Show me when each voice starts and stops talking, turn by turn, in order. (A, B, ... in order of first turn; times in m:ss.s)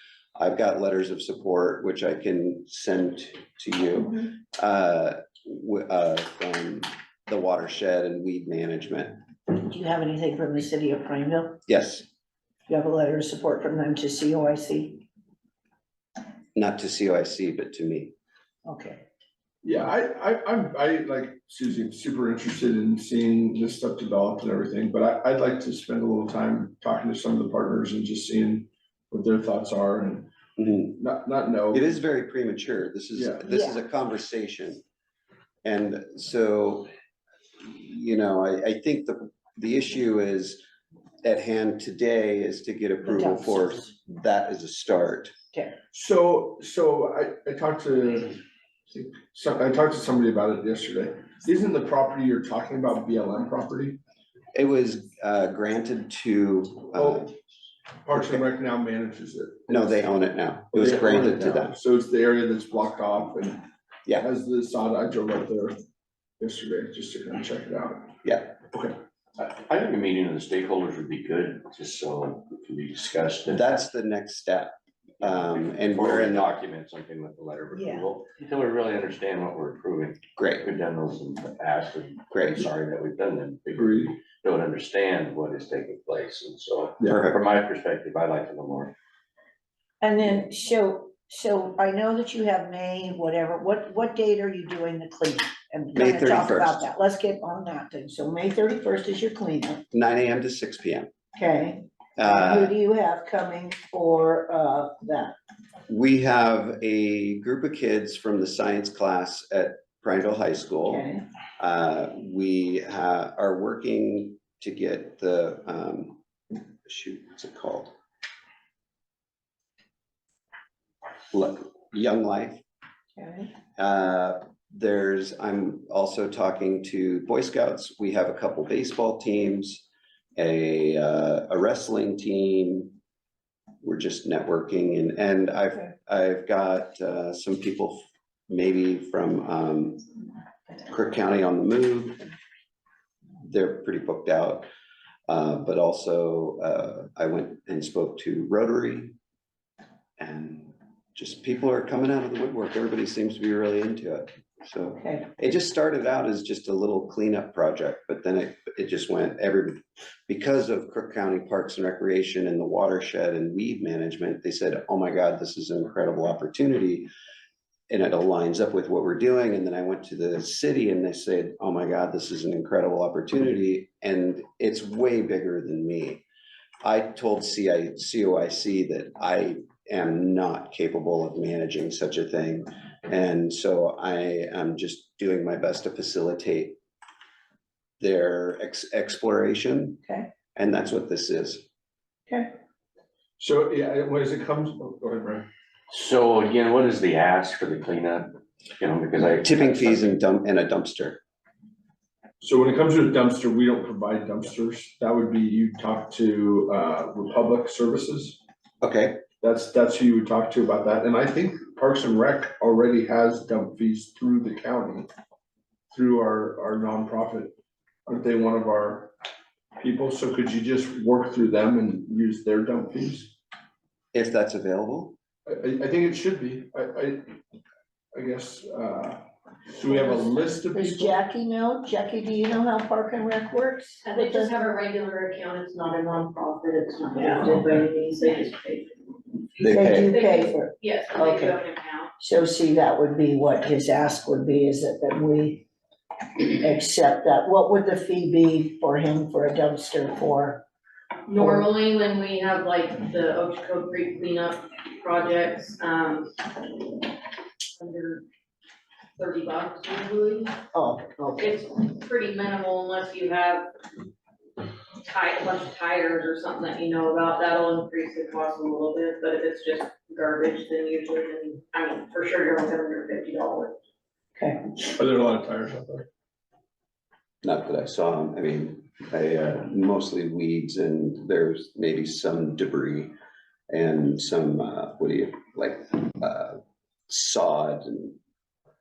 0:00.4-0:09.2 A
0:09.5-0:11.6 B
0:11.7-0:12.0 A
0:12.7-0:15.0 B
0:16.5-0:18.1 A
0:18.6-0:19.0 B
0:19.6-0:30.3 C
0:30.6-0:31.0 A
0:31.0-0:31.9 C
0:31.7-0:34.8 A
0:33.1-0:33.4 C
0:33.5-0:33.8 B
0:35.6-0:36.9 A
0:37.6-0:40.6 A
0:41.2-0:45.3 A
0:43.0-0:43.9 B
0:45.9-0:54.0 C
0:54.5-0:57.3 A
0:56.9-0:57.3 C
0:58.0-0:59.9 C
0:58.2-0:58.4 A
0:59.7-1:01.8 A
1:00.7-1:05.8 C
1:06.4-1:08.1 C
1:08.2-1:08.5 A
1:08.7-1:09.0 C
1:09.4-1:13.8 D
1:13.5-1:16.5 A
1:15.7-1:28.9 D
1:17.7-1:18.0 B
1:20.4-1:20.6 A
1:22.3-1:22.7 A
1:23.7-1:24.1 C
1:27.0-1:27.3 C
1:30.0-1:39.8 B
1:35.9-1:36.8 A
1:39.9-1:41.1 A
1:41.4-1:45.3 B
1:42.2-1:42.7 A
1:45.9-1:51.0 A
1:50.8-1:51.2 B
1:51.6-1:56.2 A
1:56.8-1:57.9 A
2:01.3-2:02.6 A
2:03.2-2:03.5 B
2:03.8-2:09.8 A
2:10.4-2:12.9 A
2:13.8-2:20.0 A
2:20.9-2:22.2 A
2:23.4-2:24.7 A
2:25.3-2:29.1 A
2:30.2-2:47.1 A
2:47.9-2:56.2 A
2:56.8-3:06.8 A
3:08.0-3:10.0 A
3:10.5-3:11.6 A
3:13.4-3:15.5 C
3:15.9-3:20.2 D
3:19.4-3:21.2 A
3:22.4-3:28.4 C
3:28.8-3:29.2 A
3:29.4-3:35.1 C
3:35.9-3:37.5 C
3:38.0-3:39.1 C
3:39.8-3:43.3 C
3:44.1-3:45.1 A
3:45.4-3:47.4 C
3:48.1-3:51.2 C
3:49.9-3:54.6 B
3:54.0-4:02.1 E
3:57.1-3:57.6 B
3:59.6-4:00.1 A
3:59.6-4:01.6 B
4:02.2-4:05.7 B
4:06.4-4:10.6 B
4:11.3-4:17.0 E
4:11.4-4:11.7 B
4:17.8-4:18.2 E
4:19.2-4:20.5 E
4:20.7-4:21.6 B
4:21.4-4:23.7 E
4:25.0-4:33.7 E
4:34.8-4:36.1 C
4:37.4-4:43.1 A
4:43.7-4:48.2 A